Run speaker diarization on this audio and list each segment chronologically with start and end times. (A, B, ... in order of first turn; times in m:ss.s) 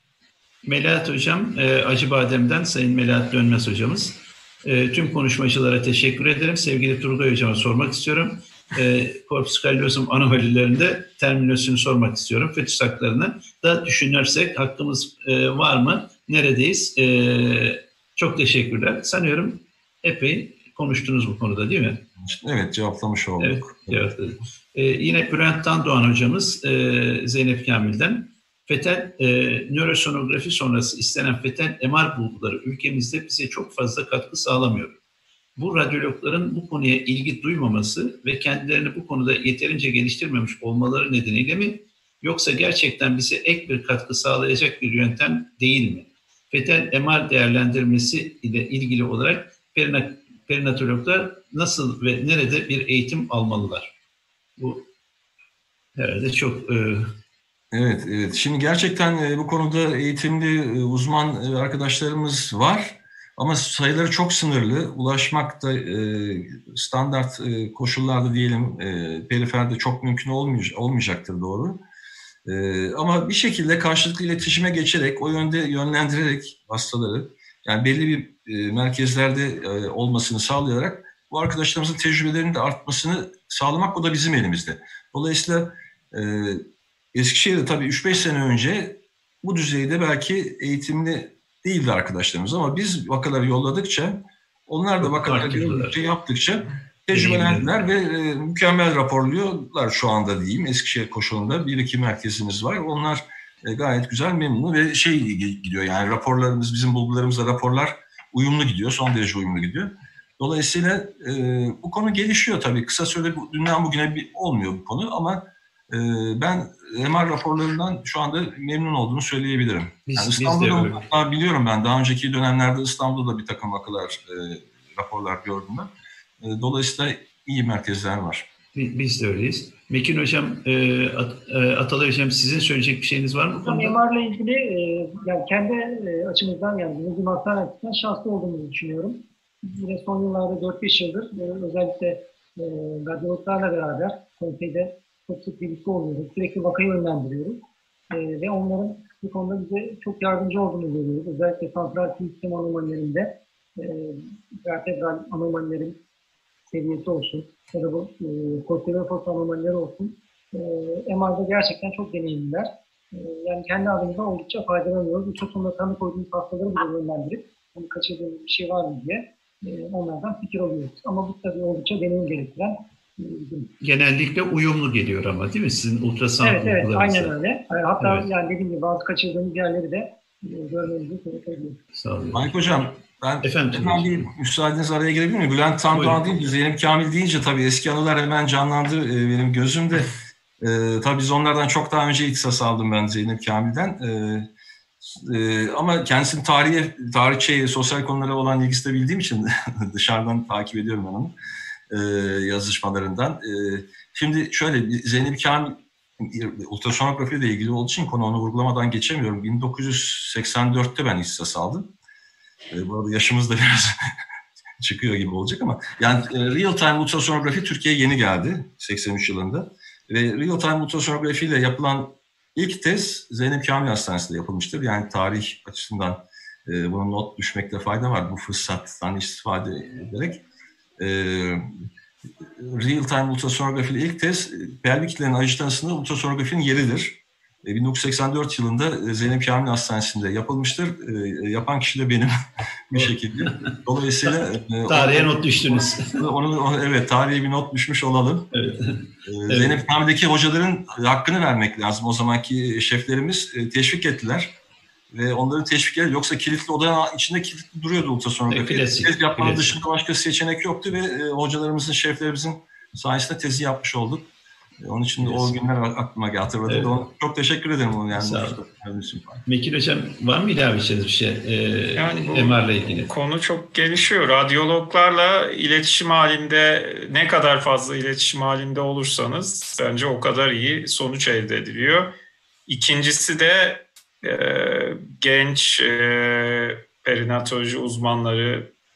0:00.6-0:22.0 A
0:22.2-0:24.0 B
0:23.4-0:35.0 A
0:35.6-0:53.9 A
0:54.6-0:54.8 A
0:56.0-0:57.1 A
0:57.7-1:11.8 B
1:12.4-1:26.6 B
1:27.1-2:05.9 B
1:35.0-1:36.0 A
1:37.1-1:37.7 A
2:00.1-2:01.0 A
2:06.4-2:08.4 B
2:08.7-2:14.0 A
2:13.6-2:27.6 C
2:28.1-2:36.0 C
2:36.7-2:53.7 C
2:53.8-2:57.3 A
2:56.4-3:01.8 C
2:58.0-2:58.3 A
3:01.9-3:02.5 A
3:02.3-3:14.5 B
3:03.4-3:04.3 A
3:05.9-3:06.2 A
3:15.1-3:21.3 B
3:21.9-3:31.8 B
3:32.7-3:33.9 B
3:34.8-3:50.4 B
3:51.0-3:51.6 B
3:52.6-4:02.3 B
4:02.9-4:05.4 B
4:02.9-4:04.4 A
4:04.9-4:06.2 A
4:06.0-4:08.5 B
4:08.5-4:09.8 A
4:09.2-4:14.5 B
4:15.1-4:24.2 B
4:18.5-4:19.8 A
4:24.8-4:29.4 B
4:25.2-4:25.6 A
4:26.7-4:27.0 A
4:28.1-4:28.6 A
4:29.4-4:33.1 A
4:32.0-4:42.1 D
4:42.7-4:48.6 D